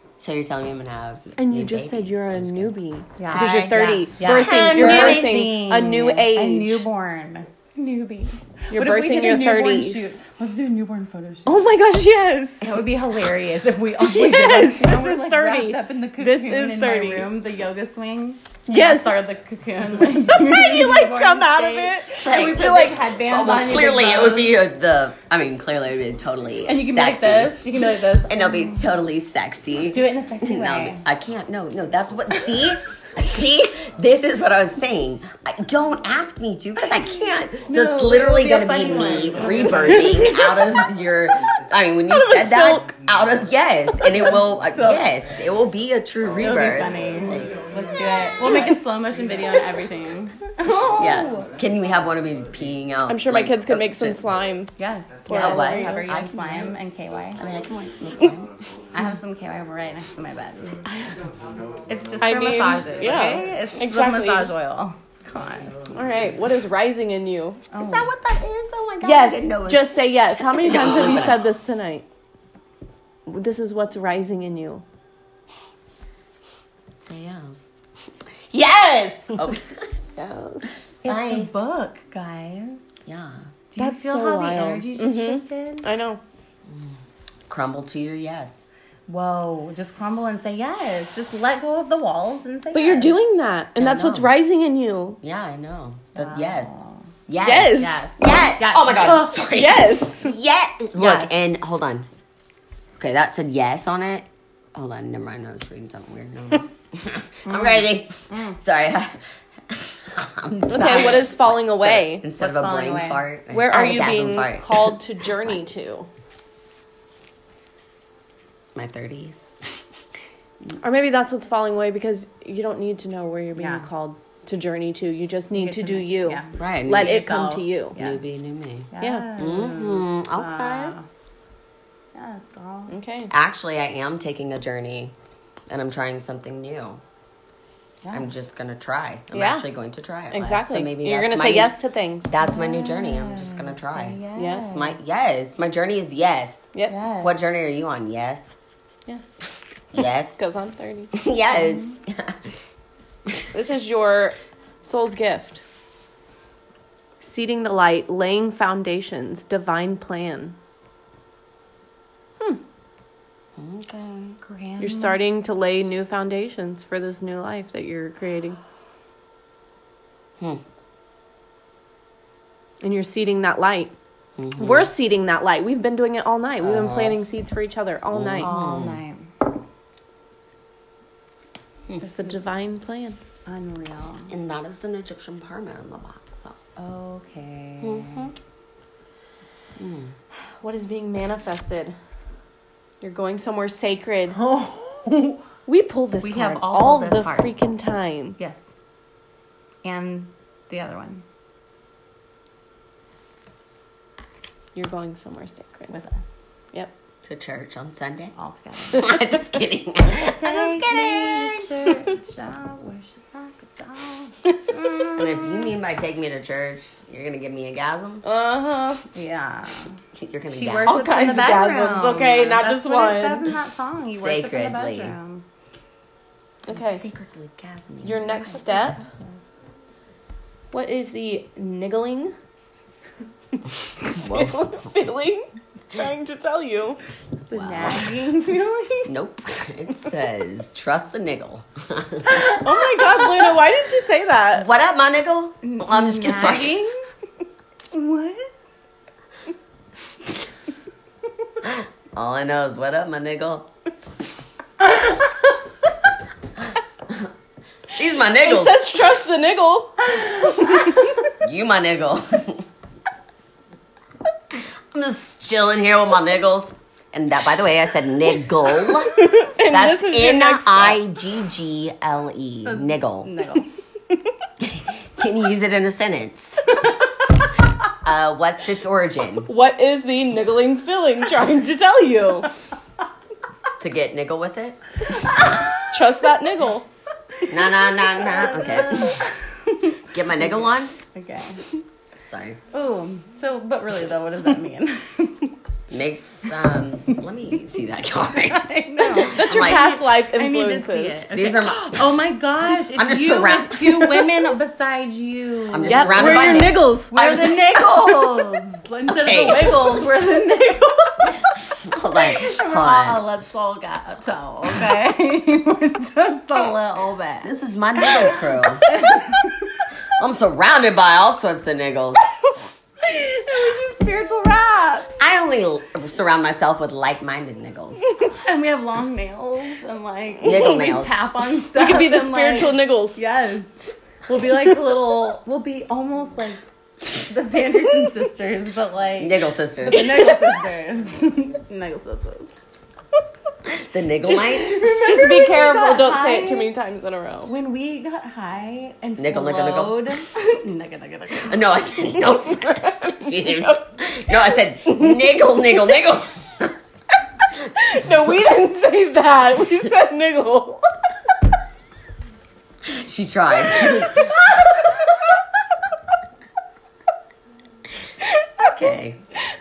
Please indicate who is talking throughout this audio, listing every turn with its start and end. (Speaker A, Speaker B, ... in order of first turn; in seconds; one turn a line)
Speaker A: 0.2-5.5
Speaker B: 1.4-6.8
Speaker C: 3.1-11.7
Speaker B: 8.7-10.2
Speaker B: 11.4-12.7
Speaker C: 12.6-24.6
Speaker B: 14.0-17.3
Speaker B: 18.7-19.2
Speaker B: 20.2-23.0
Speaker A: 22.2-27.7
Speaker C: 26.6-28.9
Speaker A: 28.3-47.5
Speaker C: 29.9-31.0
Speaker B: 37.7-38.9
Speaker C: 38.0-40.4
Speaker B: 39.6-40.7
Speaker B: 42.1-42.9
Speaker C: 44.2-45.1
Speaker C: 46.4-51.5
Speaker A: 50.9-54.2
Speaker B: 53.1-54.7
Speaker C: 54.8-57.4
Speaker B: 55.3-56.1
Speaker A: 55.3-56.8
Speaker A: 57.4-58.5
Speaker C: 58.9-60.8
Speaker C: 61.9-65.8
Speaker B: 62.2-64.5
Speaker B: 65.9-67.6
Speaker C: 67.7-68.1
Speaker A: 67.8-71.4
Speaker B: 69.0-72.0
Speaker B: 73.3-74.8
Speaker A: 77.0-77.7
Speaker A: 78.5-80.0
Speaker B: 80.2-80.7
Speaker C: 81.0-82.8
Speaker A: 81.0-81.5
Speaker A: 83.0-83.5
Speaker C: 83.7-85.9
Speaker B: 83.8-86.2
Speaker A: 86.7-88.6
Speaker C: 89.1-93.1
Speaker B: 92.7-95.2
Speaker A: 93.8-94.3
Speaker A: 95.2-102.1
Speaker C: 96.1-97.0
Speaker B: 97.4-98.0
Speaker C: 97.8-99.5
Speaker B: 99.4-100.3
Speaker C: 101.0-101.3
Speaker A: 103.0-109.2
Speaker C: 107.5-108.6
Speaker A: 109.7-114.9
Speaker C: 110.5-111.3
Speaker B: 110.7-112.2
Speaker C: 112.4-113.2
Speaker B: 113.5-116.1
Speaker A: 118.8-119.4
Speaker B: 120.8-128.0
Speaker C: 123.5-123.9
Speaker C: 125.5-128.2
Speaker A: 126.5-127.1
Speaker A: 127.9-130.9
Speaker C: 128.9-131.1
Speaker B: 129.0-129.3
Speaker C: 132.1-132.9
Speaker B: 132.9-133.3
Speaker A: 133.3-135.1
Speaker A: 135.7-137.0
Speaker C: 138.0-138.3
Speaker A: 138.1-141.8
Speaker B: 139.3-139.7
Speaker B: 140.3-142.3
Speaker A: 142.3-148.5
Speaker C: 142.4-145.0
Speaker B: 144.4-144.7
Speaker C: 146.8-147.4
Speaker A: 149.9-150.4
Speaker B: 150.4-151.1
Speaker A: 151.1-152.4
Speaker C: 151.5-151.9
Speaker B: 153.5-155.6
Speaker B: 157.2-160.6
Speaker A: 163.6-164.4
Speaker C: 164.4-165.2
Speaker B: 164.8-168.6
Speaker B: 172.8-173.9
Speaker A: 174.4-174.9
Speaker B: 174.6-178.5
Speaker A: 176.6-177.2
Speaker A: 178.1-179.0
Speaker C: 178.4-179.3
Speaker C: 182.0-182.5
Speaker B: 182.2-183.2
Speaker C: 183.4-184.3
Speaker A: 184.3-186.6
Speaker C: 186.8-188.3
Speaker A: 187.8-188.3
Speaker A: 189.8-190.1
Speaker B: 190.6-192.0
Speaker B: 193.0-194.4
Speaker B: 195.7-198.4
Speaker C: 196.2-197.6
Speaker C: 198.4-198.6
Speaker C: 199.8-201.2
Speaker B: 204.8-205.9
Speaker C: 205.9-206.3
Speaker A: 207.2-208.3
Speaker C: 208.4-209.2
Speaker A: 208.9-211.7
Speaker C: 210.1-215.7
Speaker A: 215.1-218.2
Speaker B: 218.2-219.0
Speaker C: 219.1-219.9
Speaker A: 220.1-221.0
Speaker C: 220.5-225.4
Speaker B: 220.9-223.5
Speaker A: 224.1-225.1
Speaker B: 226.7-227.0
Speaker A: 226.7-228.6
Speaker B: 228.0-229.0
Speaker C: 228.6-229.0
Speaker B: 230.7-232.3
Speaker B: 234.1-237.0
Speaker A: 237.5-238.1
Speaker C: 237.5-239.1
Speaker A: 239.1-242.4
Speaker B: 242.2-244.7
Speaker C: 242.7-243.2
Speaker A: 244.5-246.8
Speaker C: 245.6-247.0
Speaker C: 247.9-248.5
Speaker A: 251.6-253.7
Speaker A: 257.9-258.8
Speaker B: 258.3-260.9
Speaker A: 261.4-262.6
Speaker A: 264.5-273.3
Speaker B: 268.8-271.0
Speaker C: 272.6-273.7
Speaker A: 274.6-276.8
Speaker A: 278.0-279.5
Speaker B: 279.5-282.5
Speaker A: 283.8-285.0
Speaker B: 285.8-286.9
Speaker A: 287.5-289.2
Speaker C: 288.2-289.9
Speaker A: 290.1-290.9
Speaker C: 291.1-291.6
Speaker A: 292.2-292.6
Speaker C: 292.7-295.5
Speaker A: 295.9-299.8
Speaker C: 298.5-311.5
Speaker B: 299.2-301.2
Speaker A: 301.3-302.0
Speaker A: 302.9-304.4
Speaker A: 305.7-308.3
Speaker B: 305.8-307.5
Speaker A: 309.1-310.4
Speaker A: 311.9-313.2
Speaker C: 312.1-317.6
Speaker A: 317.4-319.0
Speaker C: 318.8-319.5
Speaker A: 320.2-322.2
Speaker C: 323.0-325.2
Speaker A: 325.2-328.0
Speaker C: 328.4-342.5
Speaker A: 330.4-331.1
Speaker B: 331.7-333.2
Speaker A: 339.2-340.2
Speaker B: 339.9-340.6
Speaker A: 343.7-344.9
Speaker B: 344.2-347.5
Speaker C: 344.8-346.7
Speaker C: 347.4-351.8
Speaker A: 349.2-350.1
Speaker A: 351.4-356.8
Speaker B: 352.6-355.6
Speaker B: 357.8-360.9
Speaker A: 362.8-364.4
Speaker B: 363.7-364.3
Speaker B: 368.6-368.9
Speaker A: 368.6-369.2